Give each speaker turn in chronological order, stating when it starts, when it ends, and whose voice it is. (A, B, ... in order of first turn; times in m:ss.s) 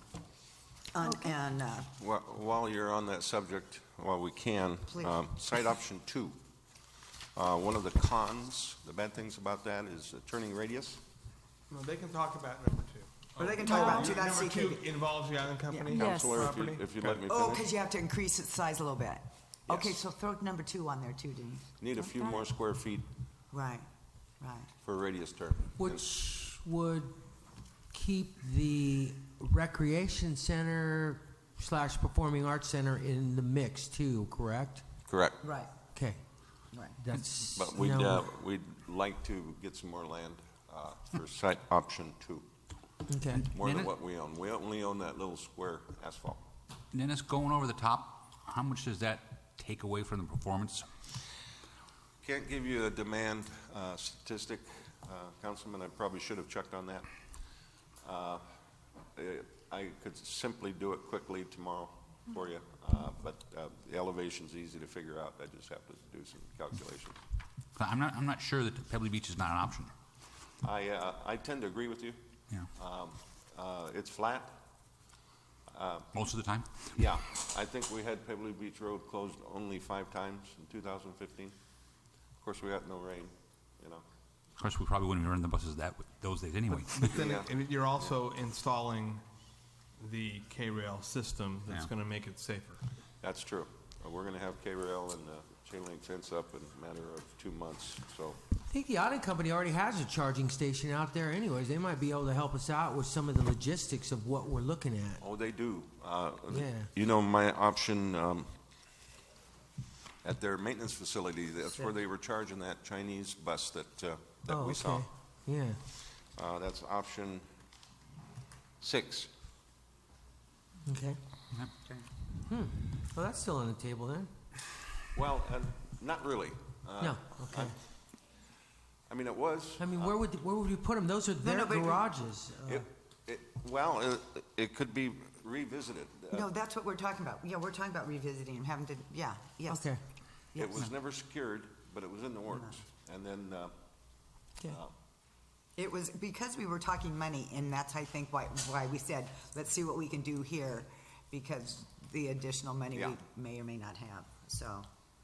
0:00.9-0:01.9 A
0:02.0-0:06.4 B
0:04.9-0:05.2 A
0:07.4-0:11.0 B
0:11.7-0:17.2 C
0:13.4-0:14.9 A
0:15.7-0:16.1 A
0:15.9-0:17.6 B
0:17.3-0:21.7 A
0:19.7-0:20.0 B
0:21.8-0:23.1 B
0:23.5-0:23.9 A
0:24.4-0:24.7 A
0:24.8-0:26.0 B
0:25.8-0:27.2 D
0:27.9-0:34.9 D
0:35.1-0:35.4 B
0:35.4-0:35.7 A
0:35.9-0:36.2 D
0:36.7-0:37.0 A
0:37.0-0:38.3 D
0:37.5-0:42.5 B
0:43.1-0:43.5 D
0:43.4-0:43.9 E
0:43.5-0:46.4 B
0:46.9-0:50.9 E
0:52.2-0:57.1 B
0:58.0-0:58.4 B
0:59.2-1:07.2 B
1:07.8-1:09.9 E
1:10.6-1:12.2 B
1:12.8-1:14.6 B
1:15.7-1:16.1 B
1:16.1-1:17.0 E
1:16.9-1:21.6 B
1:22.4-1:24.0 B
1:24.6-1:27.3 E
1:26.7-1:29.2 C
1:27.1-1:28.1 B
1:30.0-1:32.8 C
1:33.2-1:38.4 B
1:38.7-1:45.2 D
1:45.2-1:48.5 B
1:46.5-1:46.9 D
1:50.2-1:55.1 B
1:54.5-1:55.8 D
1:56.3-1:57.5 B
1:58.8-1:59.3 B
2:00.9-2:01.2 D
2:01.5-2:02.1 E
2:02.4-2:04.3 D
2:05.2-2:07.8 B
2:07.0-2:07.7 D
2:09.1-2:10.2 B
2:09.8-2:12.9 D
2:11.4-2:12.1 A
2:12.7-2:16.5 B
2:16.3-2:19.9 A
2:19.7-2:20.0 D
2:20.5-2:20.8 A
2:20.6-2:23.7 B
2:22.5-2:22.8 A
2:24.7-2:24.9 B
2:25.8-2:34.9 A